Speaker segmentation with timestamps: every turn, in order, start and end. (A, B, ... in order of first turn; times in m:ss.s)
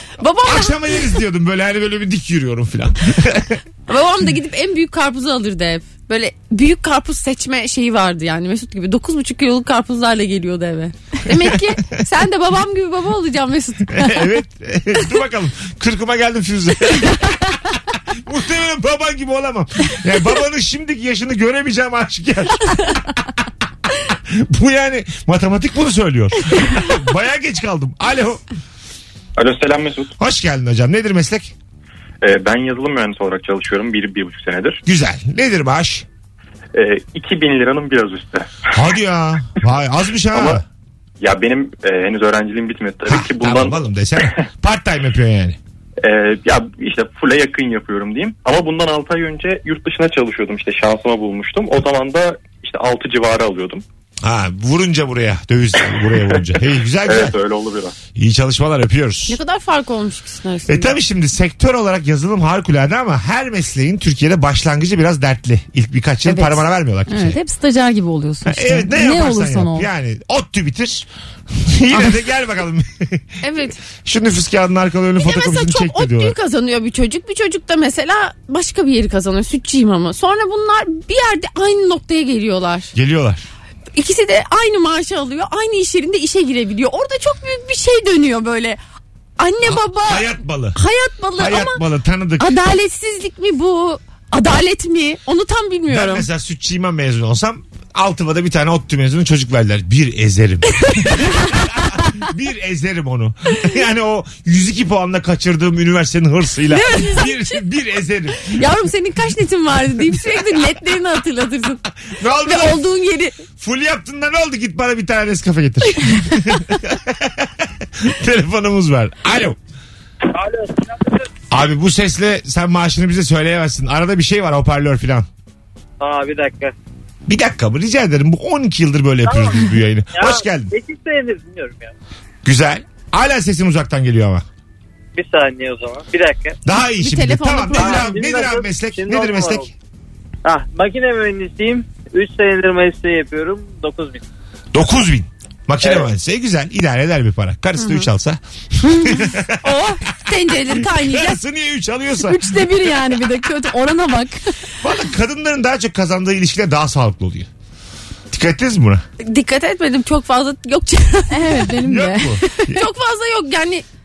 0:00.2-0:00.8 A
0:00.4-0:03.6 B
0:03.9-0:14.4 A
0:13.9-0:17.6 B
0:18.1-0:23.3 B
0:24.3-0:28.4 B
0:29.4-0:30.1 C
0:30.2-0:31.5 B
0:32.2-0:34.8 C
0:34.9-0:36.1 B
0:36.7-0:38.6 C
0:38.7-0:40.6 B
0:40.3-0:40.6 C
0:41.2-0:44.4 C
0:43.1-0:45.6 B
0:46.0-0:53.8 C
0:54.2-0:57.4 B
0:57.0-0:58.0 C
0:58.2-0:59.4 B
0:59.3-1:01.0 A
1:00.7-1:07.4 B
1:06.2-1:09.9 D
1:08.5-1:13.3 B
1:13.4-1:13.8 A
1:14.0-1:16.4 B
1:15.2-1:22.9 A
1:22.9-1:23.5 B
1:24.0-1:28.8 A
1:29.4-1:31.8 A
1:29.6-1:30.8 B
1:31.4-1:32.5 B
1:32.4-1:36.3 A
1:35.9-1:48.6 B
1:40.8-1:41.6 A
1:46.7-1:47.7 A
1:48.4-1:51.8 A
1:52.1-1:52.8 B
1:52.4-1:53.4 A
1:53.6-1:59.6 B
2:00.3-2:01.3 E
2:01.5-2:05.3 B
2:06.0-2:06.7 E
2:07.3-2:10.7 B
2:09.2-2:11.9 E
2:12.4-2:14.5 B
2:15.2-2:16.6 E
2:16.6-2:19.7 B
2:17.0-2:18.3 A
2:17.8-2:19.7 E
2:20.4-2:24.2 E
2:24.7-2:29.8 B
2:27.8-2:28.1 A
2:29.6-2:31.4 A
2:30.7-2:32.4 B
2:32.2-2:34.4 D
2:34.8-2:37.5 B
2:38.3-2:39.0 B
2:39.2-2:41.7 A
2:41.3-2:42.7 D
2:41.8-2:42.8 B
2:42.7-2:43.8 A